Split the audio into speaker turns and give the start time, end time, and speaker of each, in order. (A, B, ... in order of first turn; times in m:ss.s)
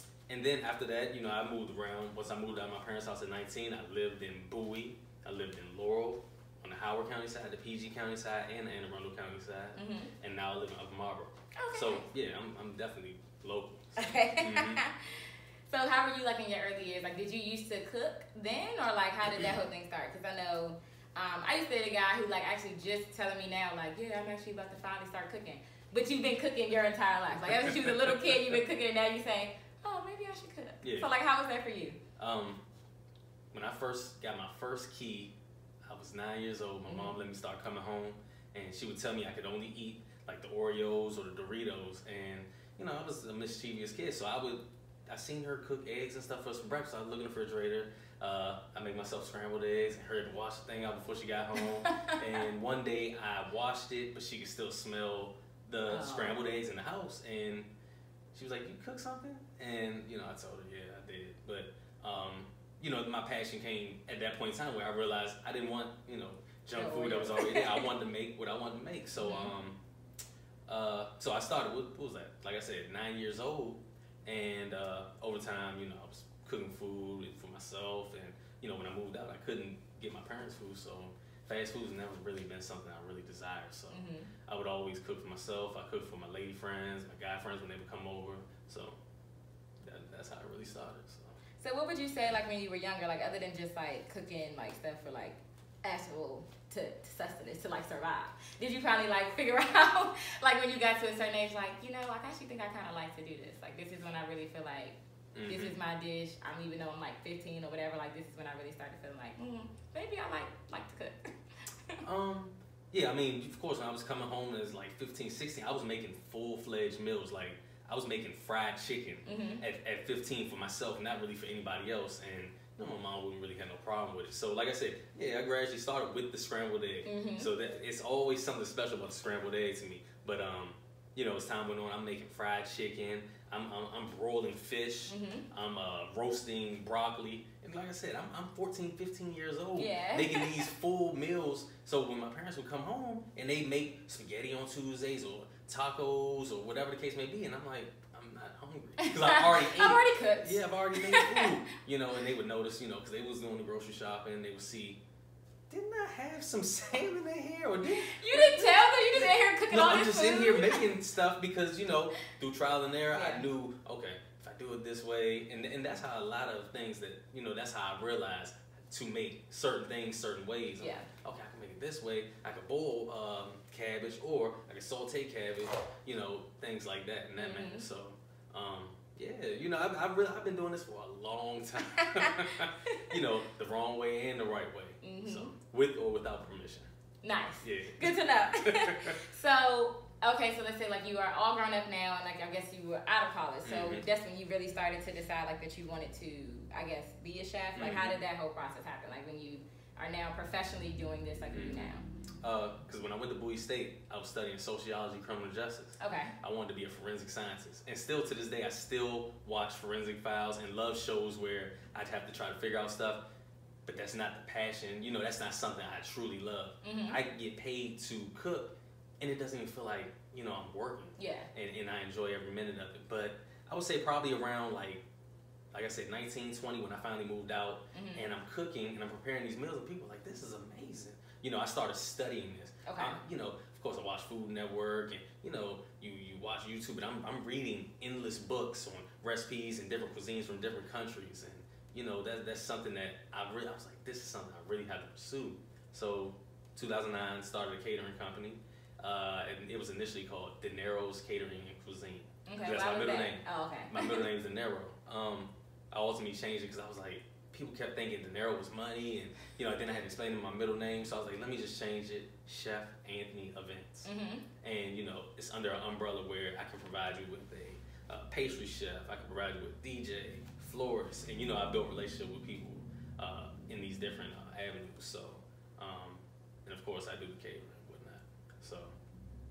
0:00.3-0:14.8 A
0:09.8-0:10.1 B
0:11.6-0:12.0 B
0:14.0-0:32.0 B
0:27.5-0:28.2 A
0:30.8-0:31.1 A
0:32.2-0:32.6 A
0:33.5-0:35.3 A
0:35.8-0:57.7 A
0:36.8-0:37.2 B
0:51.6-0:52.3 B
0:55.9-0:56.4 B
0:58.3-1:09.8 A
1:06.8-1:07.9 B
1:09.2-1:09.5 B
1:10.7-1:29.0 A
1:23.9-1:24.3 B
1:29.8-1:31.4 A
1:31.6-1:51.3 B
1:45.4-1:45.7 A
1:52.0-2:35.0 A
1:59.2-1:59.6 B
2:07.1-2:07.5 B
2:15.1-2:15.4 B
2:19.8-2:20.7 B
2:29.0-2:31.5 B
2:35.7-3:06.9 A
2:38.0-2:40.8 B
2:43.1-2:43.4 B
2:50.8-2:51.1 B
2:57.4-2:57.9 B
3:01.8-3:03.1 B
3:05.0-3:05.5 B
3:07.2-3:22.0 B
3:07.6-3:09.2 A
3:13.6-3:14.0 A
3:17.8-3:18.2 A
3:21.5-3:21.9 A
3:22.4-3:33.2 A
3:26.0-3:26.3 B
3:33.9-3:45.0 A
3:36.8-3:37.2 B
3:41.2-3:41.5 B
3:45.7-4:24.1 A
3:47.9-3:48.3 B
3:52.8-3:53.2 B
4:12.5-4:14.2 B
4:24.0-4:24.4 B
4:24.6-4:38.9 A